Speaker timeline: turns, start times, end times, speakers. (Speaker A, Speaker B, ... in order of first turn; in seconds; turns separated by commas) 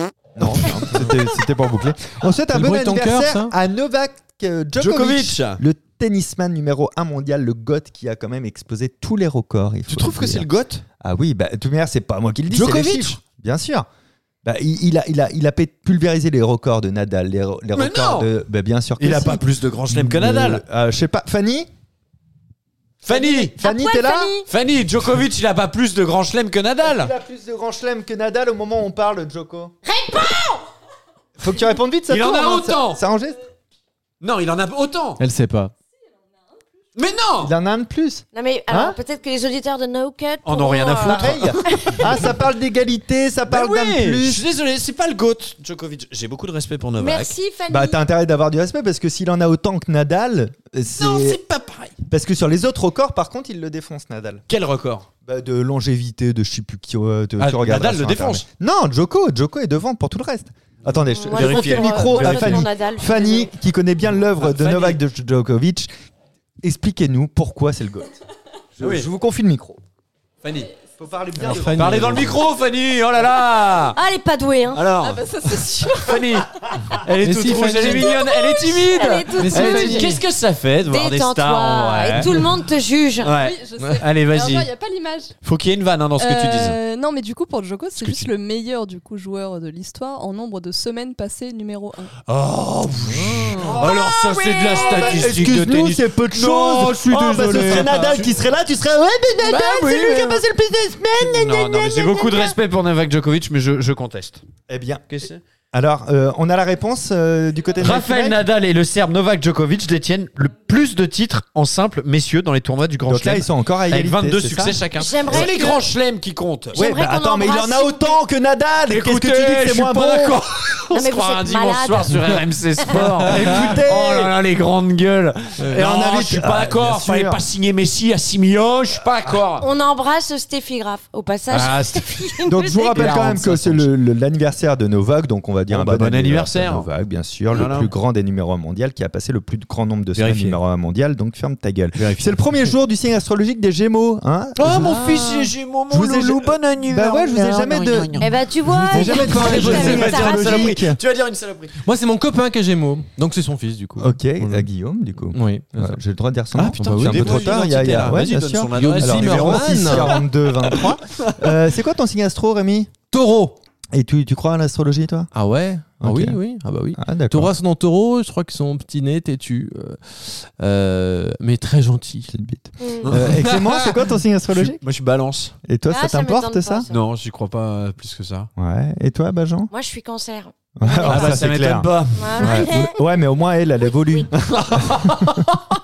Speaker A: 0.3-10.5, Speaker B: 0.7-1.1, Speaker C: 2.5-3.5, Speaker B: 4.8-5.6, Speaker B: 9.9-10.8, Speaker A: 11.0-13.9, Speaker B: 12.5-13.2, Speaker A: 14.4-21.7, Speaker B: 17.8-18.3, Speaker B: 19.0-20.6, Speaker B: 23.0-23.5, Speaker D: 23.1-24.5, Speaker A: 23.6-24.3, Speaker B: 24.5-27.1, Speaker A: 26.8-29.7, Speaker D: 29.8-30.7, Speaker A: 31.4-33.4, Speaker B: 32.1-33.0, Speaker B: 34.2-35.2, Speaker C: 35.2-35.7, Speaker B: 36.9-37.5, Speaker A: 37.4-39.0, Speaker D: 38.3-42.0, Speaker B: 40.4-42.3, Speaker A: 41.0-44.4, Speaker B: 43.5-47.3, Speaker D: 47.0-48.0, Speaker A: 47.7-51.4, Speaker B: 50.9-52.0, Speaker A: 52.1-54.4, Speaker B: 54.5-55.1, Speaker A: 55.2-65.9, Speaker B: 57.4-58.4, Speaker B: 60.8-62.7, Speaker D: 61.1-63.5, Speaker B: 64.4-65.0, Speaker A: 66.6-68.1, Speaker A: 68.8-69.8, Speaker B: 68.8-69.1, Speaker B: 70.4-70.7, Speaker A: 71.0-72.4, Speaker C: 71.4-72.3, Speaker B: 71.4-74.0, Speaker D: 73.9-74.8, Speaker B: 74.7-82.5, Speaker E: 75.0-76.7, Speaker C: 77.2-78.2, Speaker D: 77.9-80.2, Speaker C: 79.4-80.2, Speaker E: 79.5-80.0, Speaker D: 80.9-83.3, Speaker B: 83.2-84.7, Speaker E: 83.4-85.3, Speaker B: 85.4-86.8, Speaker E: 86.2-92.1, Speaker B: 88.0-88.3, Speaker B: 92.2-98.4, Speaker C: 93.2-93.7, Speaker A: 93.2-102.5, Speaker B: 99.4-100.4, Speaker B: 101.2-104.4, Speaker A: 104.7-105.0, Speaker B: 105.1-105.4, Speaker A: 105.7-108.4, Speaker B: 107.8-116.8, Speaker A: 113.1-115.5, Speaker D: 115.0-115.8, Speaker D: 116.7-118.2, Speaker A: 116.7-120.4, Speaker B: 118.9-129.6, Speaker D: 120.9-122.2, Speaker A: 123.2-124.4, Speaker C: 123.3-123.7, Speaker A: 125.7-127.4, Speaker D: 129.6-133.1, Speaker B: 131.5-132.4, Speaker A: 132.4-145.0, Speaker B: 132.9-133.9, Speaker B: 135.7-136.9, Speaker B: 137.5-137.9, Speaker B: 140.1-140.6, Speaker B: 141.9-142.4, Speaker B: 144.6-148.3, Speaker C: 144.6-145.5, Speaker A: 145.9-151.0, Speaker D: 148.2-150.7, Speaker C: 148.9-150.1, Speaker B: 149.1-151.8, Speaker C: 151.8-154.7, Speaker A: 154.0-162.9, Speaker C: 155.3-156.0, Speaker C: 156.6-157.6, Speaker B: 156.7-161.6, Speaker C: 158.7-160.2, Speaker C: 163.1-163.6, Speaker A: 163.9-165.3, Speaker C: 165.3-172.3, Speaker A: 166.0-166.4, Speaker A: 166.9-167.5, Speaker A: 172.3-174.8, Speaker D: 172.8-173.1, Speaker B: 173.0-173.4, Speaker C: 173.4-173.8, Speaker B: 174.5-175.6, Speaker A: 175.6-176.9, Speaker D: 175.9-177.1, Speaker B: 176.9-178.5, Speaker A: 178.6-179.7, Speaker D: 179.7-181.1, Speaker A: 180.8-185.7, Speaker B: 181.0-182.7, Speaker D: 182.1-183.0, Speaker B: 184.5-185.4